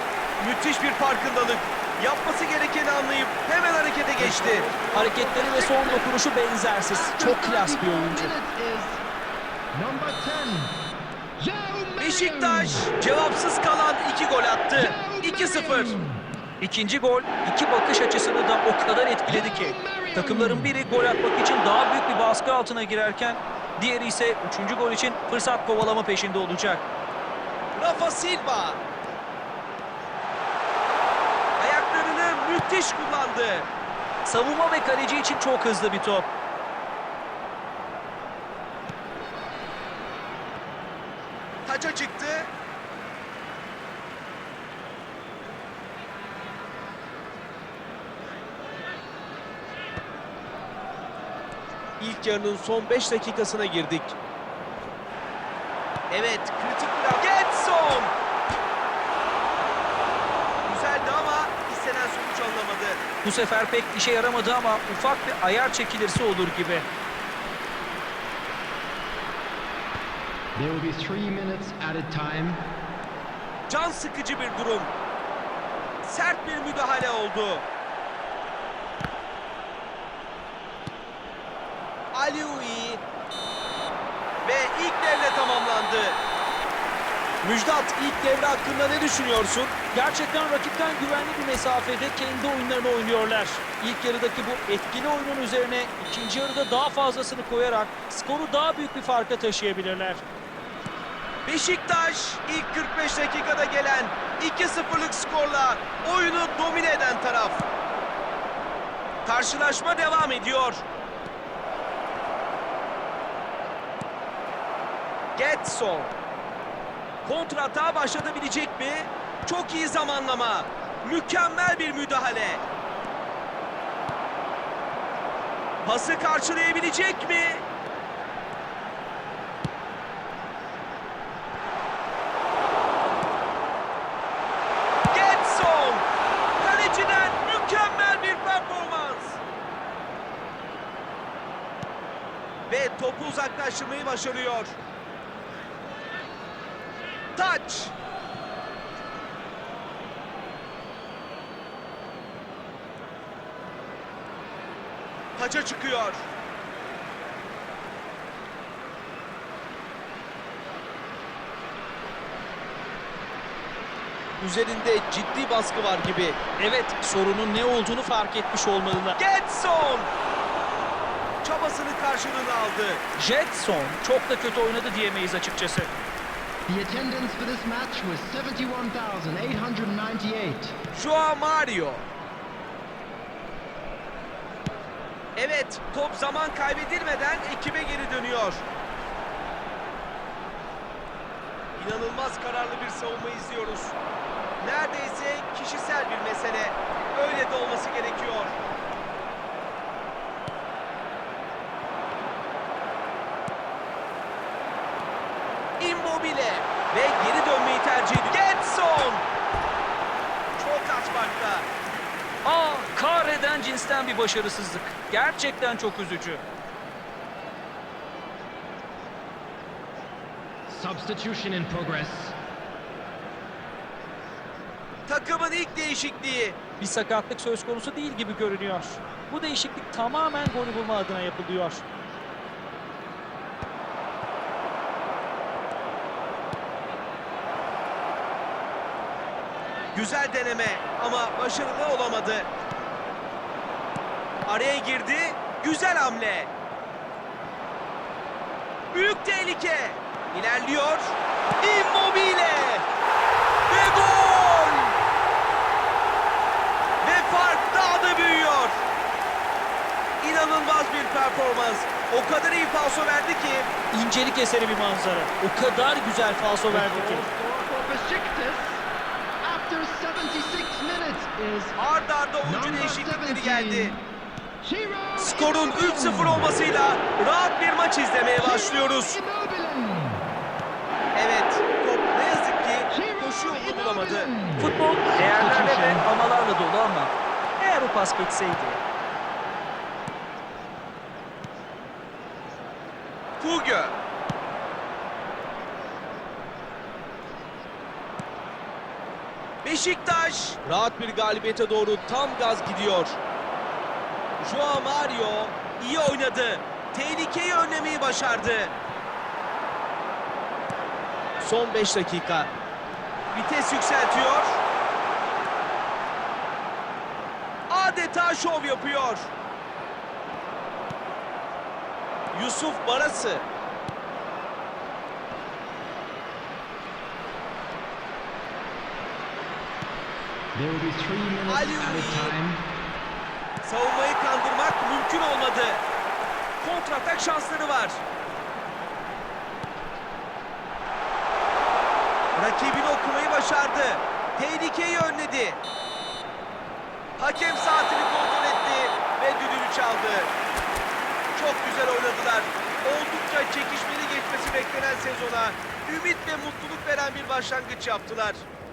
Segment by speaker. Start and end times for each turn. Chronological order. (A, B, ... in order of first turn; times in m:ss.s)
0:00.4-0:04.7 A
0:04.2-0:08.3 B
0:04.6-0:06.1 C
0:06.9-0:09.0 C
0:09.7-0:10.7 C
0:11.4-0:12.9 C
0:12.0-0:16.0 A
0:14.8-0:16.2 C
0:16.6-0:26.8 B
0:19.2-0:20.6 C
0:27.7-0:28.8 A
0:31.6-0:33.7 A
0:34.2-0:36.3 B
0:41.6-0:42.5 A
0:52.0-0:54.2 A
0:56.1-0:58.1 A
1:00.6-1:03.0 A
1:03.2-1:06.8 B
1:10.6-1:12.6 C
1:13.7-1:14.9 A
1:16.0-1:17.6 A
1:22.1-1:23.0 A
1:24.4-1:26.2 A
1:27.4-1:29.7 A
1:29.9-1:40.2 B
1:41.4-1:47.6 A
1:49.2-1:50.8 A
1:55.4-1:56.1 A
1:57.2-2:02.6 A
2:05.8-2:07.6 A
2:15.1-2:16.0 A
2:16.6-2:19.4 A
2:22.7-2:24.8 A
2:27.4-2:27.9 A
2:35.4-2:36.2 A
2:44.4-2:46.4 A
2:46.6-2:49.2 B
2:49.2-2:50.1 A
2:51.4-2:53.0 A
2:53.2-2:55.9 B
2:56.7-3:00.8 C
3:00.9-3:02.0 A
3:05.4-3:08.6 A
3:11.8-3:14.0 A
3:14.6-3:18.6 A
3:25.8-3:29.2 A
3:30.6-3:31.7 A
3:32.4-3:36.4 B
3:40.7-3:42.3 C
3:45.1-3:46.6 A
3:46.8-3:51.8 B
3:59.9-4:02.5 A
4:04.4-4:06.5 A
4:08.9-4:12.8 A
4:13.7-4:15.0 A
4:17.0-4:18.8 A
4:20.2-4:23.7 A
4:23.9-4:27.2 B
4:26.7-4:28.8 C
4:29.4-4:31.8 C
4:31.8-4:34.0 A
4:32.4-4:34.0 C
4:34.6-4:36.5 C
4:35.2-4:39.2 A
4:38.4-4:40.2 C
4:41.1-4:44.3 A
4:42.9-4:46.0 C
4:44.6-4:48.8 B
4:53.4-4:54.0 A
4:59.6-5:03.2 A
5:04.4-5:08.7 A
5:11.4-5:12.5 A
5:13.3-5:14.6 A
5:17.7-5:19.3 A
5:22.3-5:23.4 A
5:30.5-5:32.6 C
5:31.5-5:32.3 A
5:33.6-5:35.8 A
5:36.6-5:38.0 A
5:42.4-5:45.6 A
5:47.2-5:50.3 A
5:51.3-5:58.4 A